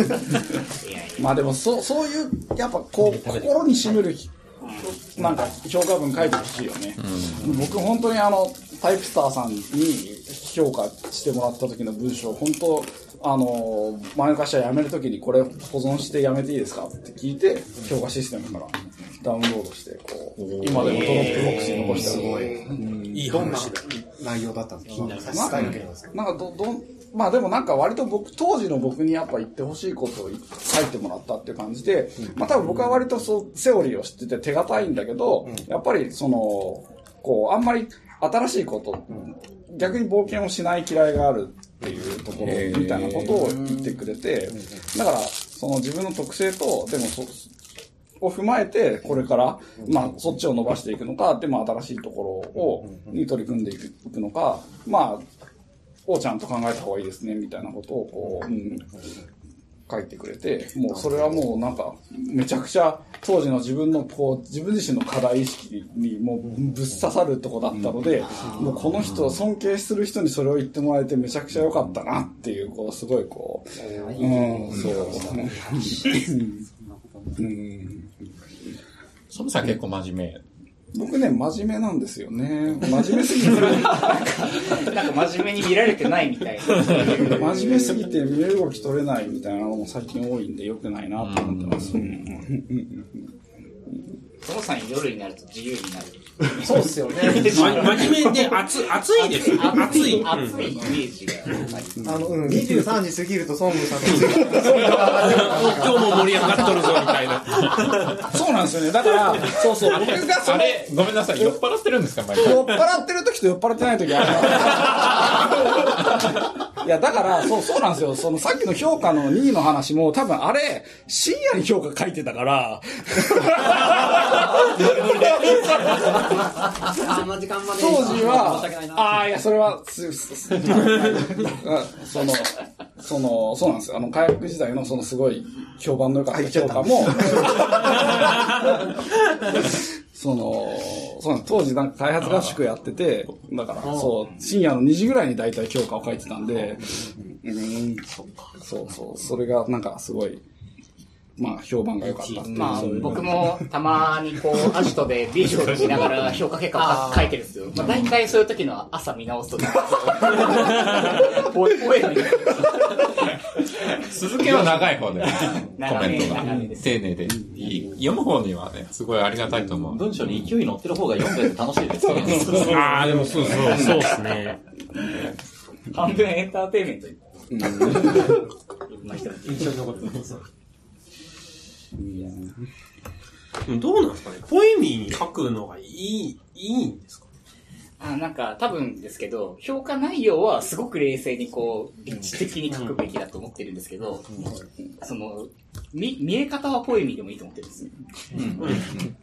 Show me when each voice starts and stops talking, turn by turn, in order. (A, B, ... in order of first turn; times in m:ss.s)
0:00.3-0:01.4 A
0:01.2-0:04.3 B
0:03.2-0:03.5 C
0:04.6-0:04.9 A
0:04.8-0:23.7 B
0:07.0-0:07.5 D
0:20.4-0:22.2 D
0:21.5-0:22.6 E
0:23.1-0:23.9 F
0:23.2-0:26.1 E
0:25.1-0:47.5 B
0:25.5-0:25.8 D
0:42.4-0:43.4 D
0:43.4-0:43.7 G
0:48.2-0:55.3 B
0:56.0-0:58.9 B
0:59.9-1:16.6 B
1:08.4-1:08.7 A
1:13.8-1:17.5 C
1:17.4-1:18.2 B
1:19.3-1:20.4 D
1:20.9-1:24.3 B
1:23.6-1:27.9 A
1:27.2-1:33.3 B
1:31.2-1:32.0 D
1:34.4-1:42.1 A
1:36.6-1:38.0 E
1:37.4-1:40.7 F
1:42.0-1:42.6 B
1:42.0-1:46.7 E
1:44.1-1:48.3 F
1:48.2-1:51.6 B
1:50.0-1:52.8 D
1:52.3-2:06.2 B
2:05.9-2:06.2 C
2:06.8-2:09.2 C
2:07.7-2:30.4 B
2:31.4-2:33.7 B
2:32.0-2:33.0 C
2:32.5-2:43.1 A
2:35.9-2:36.2 B
2:36.7-2:37.3 C
2:44.1-2:50.2 D
2:44.5-2:47.0 A
2:47.3-2:47.7 B
2:49.8-2:53.0 G
2:52.1-2:53.7 B
2:52.2-2:52.6 D
2:52.6-2:54.6 F
2:53.5-2:54.1 G
2:55.9-2:59.9 A
2:57.5-2:58.3 B
2:59.4-3:00.4 C
3:02.0-3:02.5 B
3:03.7-3:07.3 F
3:08.0-3:14.5 A
3:15.0-3:18.4 A
3:18.3-3:19.1 G
3:18.6-3:18.9 F